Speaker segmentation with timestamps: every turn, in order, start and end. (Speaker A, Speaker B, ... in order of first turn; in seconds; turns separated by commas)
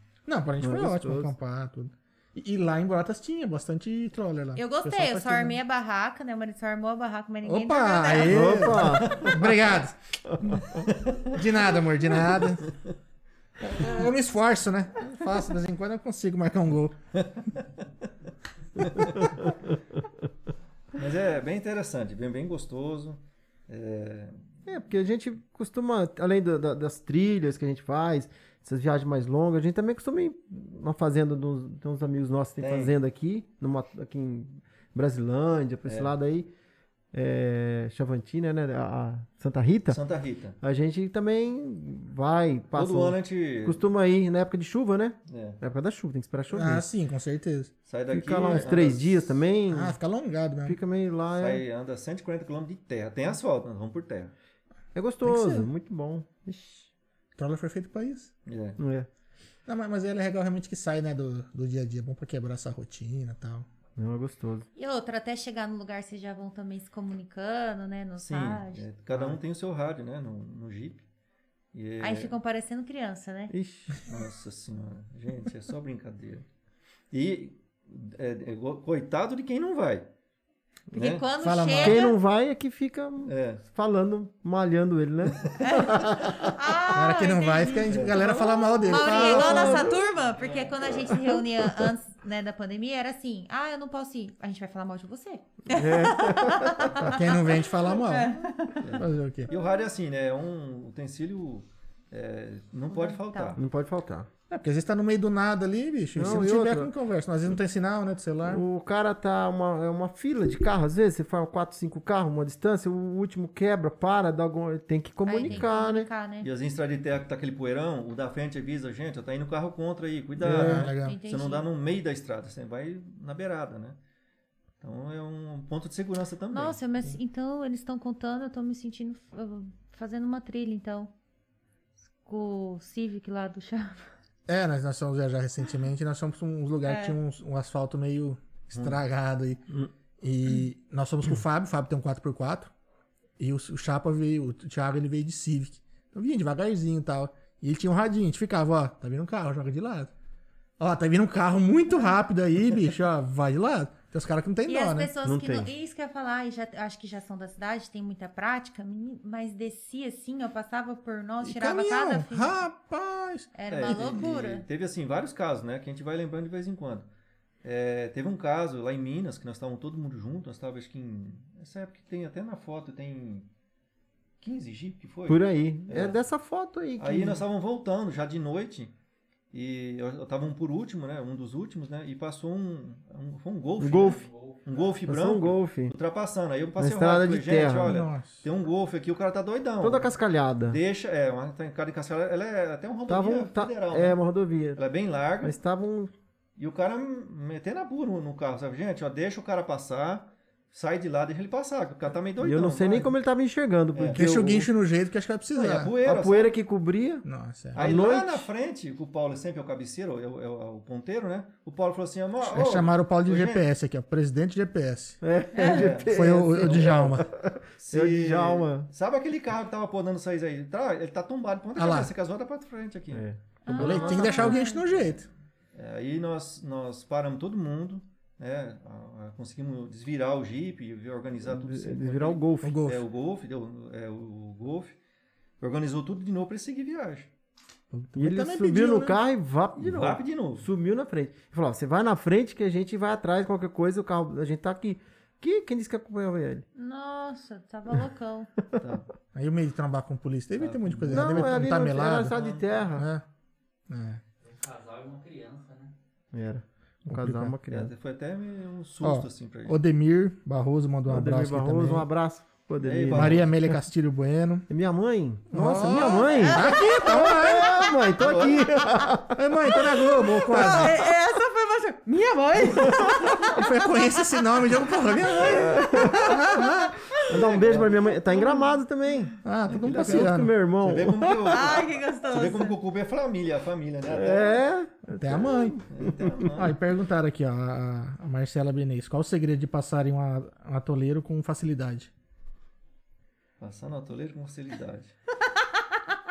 Speaker A: 0.3-5.6, Speaker B: 0.6-1.3, Speaker C: 4.6-8.8, Speaker A: 7.4-12.7, Speaker B: 8.2-9.3, Speaker D: 8.9-9.4, Speaker D: 10.9-11.4, Speaker D: 12.3-12.8, Speaker A: 13.6-17.0, Speaker D: 17.2-17.4, Speaker D: 18.8-19.3, Speaker D: 20.9-24.4, Speaker B: 24.7-36.5, Speaker D: 32.6-32.9, Speaker D: 35.9-36.1, Speaker B: 37.1-40.0, Speaker D: 39.9-40.6, Speaker B: 40.6-46.9, Speaker D: 42.7-43.9, Speaker D: 45.3-45.6, Speaker A: 46.5-47.7, Speaker D: 47.9-49.4, Speaker B: 48.1-50.0, Speaker A: 49.7-50.8, Speaker B: 50.6-51.6, Speaker D: 51.4-54.3, Speaker B: 54.9-56.9, Speaker A: 55.2-55.7, Speaker A: 57.4-58.3, Speaker D: 58.5-58.8, Speaker B: 58.8-59.1, Speaker A: 59.7-63.7, Speaker B: 64.0-64.7, Speaker C: 64.8-68.9, Speaker D: 68.2-71.0, Speaker D: 71.7-72.4, Speaker C: 72.0-73.5, Speaker B: 73.5-74.0, Speaker D: 74.1-76.4, Speaker D: 77.1-80.1, Speaker D: 80.9-81.3, Speaker C: 80.9-82.2, Speaker A: 81.4-82.0, Speaker B: 81.8-86.5, Speaker D: 83.2-83.6, Speaker C: 85.6-98.8, Speaker A: 86.9-89.9, Speaker D: 87.9-88.4, Speaker B: 88.9-90.0, Speaker D: 90.3-90.8, Speaker B: 95.7-97.1, Speaker A: 97.0-98.3, Speaker D: 98.8-103.6, Speaker A: 99.0-99.5, Speaker C: 102.9-103.6, Speaker B: 103.6-104.3, Speaker A: 104.5-108.6, Speaker B: 106.2-106.9, Speaker B: 108.4-116.1, Speaker C: 115.3-116.5, Speaker D: 116.4-124.0, Speaker A: 120.4-121.2, Speaker C: 121.0-121.7, Speaker D: 124.8-126.8, Speaker C: 126.5-131.1, Speaker C: 132.2-134.1, Speaker A: 134.5-139.6, Speaker C: 136.8-137.2, Speaker D: 138.7-139.0, Speaker A: 140.2-142.7, Speaker A: 143.4-150.1, Speaker A: 150.8-155.1, Speaker C: 154.7-162.6, Speaker B: 155.2-155.7, Speaker A: 161.4-164.1, Speaker C: 163.6-164.6, Speaker D: 163.7-167.1, Speaker D: 167.6-173.5, Speaker D: 174.4-176.2, Speaker B: 175.3-177.4, Speaker D: 177.0-178.9, Speaker D: 179.5-190.1, Speaker B: 183.8-184.2, Speaker E: 184.0-184.9, Speaker B: 185.1-185.9, Speaker B: 186.8-188.0, Speaker A: 187.8-188.4, Speaker B: 189.8-190.8, Speaker D: 190.7-194.2, Speaker B: 193.1-194.8, Speaker D: 194.8-195.6, Speaker B: 195.4-196.1, Speaker D: 196.6-203.2, Speaker B: 202.4-204.7, Speaker D: 203.9-204.3, Speaker A: 204.1-205.9, Speaker D: 205.5-206.5, Speaker B: 206.0-208.5, Speaker A: 207.2-207.8, Speaker D: 207.8-213.6, Speaker A: 212.4-215.2, Speaker B: 215.2-218.9, Speaker D: 215.6-217.3, Speaker A: 216.1-217.3, Speaker D: 217.8-223.3, Speaker A: 221.8-222.1, Speaker B: 223.1-224.6, Speaker C: 223.6-224.8, Speaker A: 223.7-225.3, Speaker D: 224.1-224.4, Speaker D: 225.7-234.9, Speaker B: 231.4-232.8, Speaker A: 232.6-233.0, Speaker D: 235.6-237.3, Speaker A: 237.9-239.2, Speaker B: 238.2-246.7, Speaker D: 239.8-240.7, Speaker C: 246.8-248.5, Speaker D: 248.8-249.1, Speaker A: 249.3-252.4, Speaker D: 250.6-251.7, Speaker B: 251.1-253.1, Speaker D: 252.3-252.8, Speaker A: 252.9-253.2, Speaker A: 253.9-254.2, Speaker E: 254.4-255.9, Speaker B: 256.3-257.9, Speaker A: 257.1-257.6, Speaker D: 257.7-259.8, Speaker A: 259.0-262.1, Speaker B: 261.1-263.5, Speaker D: 262.8-263.5, Speaker A: 263.1-264.7, Speaker B: 264.7-269.4, Speaker A: 265.5-267.9, Speaker C: 266.4-267.1, Speaker D: 268.2-268.9, Speaker A: 269.3-271.1, Speaker C: 270.5-273.7, Speaker A: 273.4-277.0, Speaker B: 275.4-276.3, Speaker C: 276.1-277.2, Speaker D: 277.2-278.8, Speaker B: 277.3-279.4, Speaker A: 279.4-280.5, Speaker D: 279.7-284.6, Speaker B: 279.9-281.7, Speaker C: 281.5-282.8, Speaker B: 284.1-286.5, Speaker A: 285.1-285.8, Speaker D: 285.9-286.7, Speaker A: 286.5-292.1, Speaker D: 293.6-295.1, Speaker C: 295.6-296.0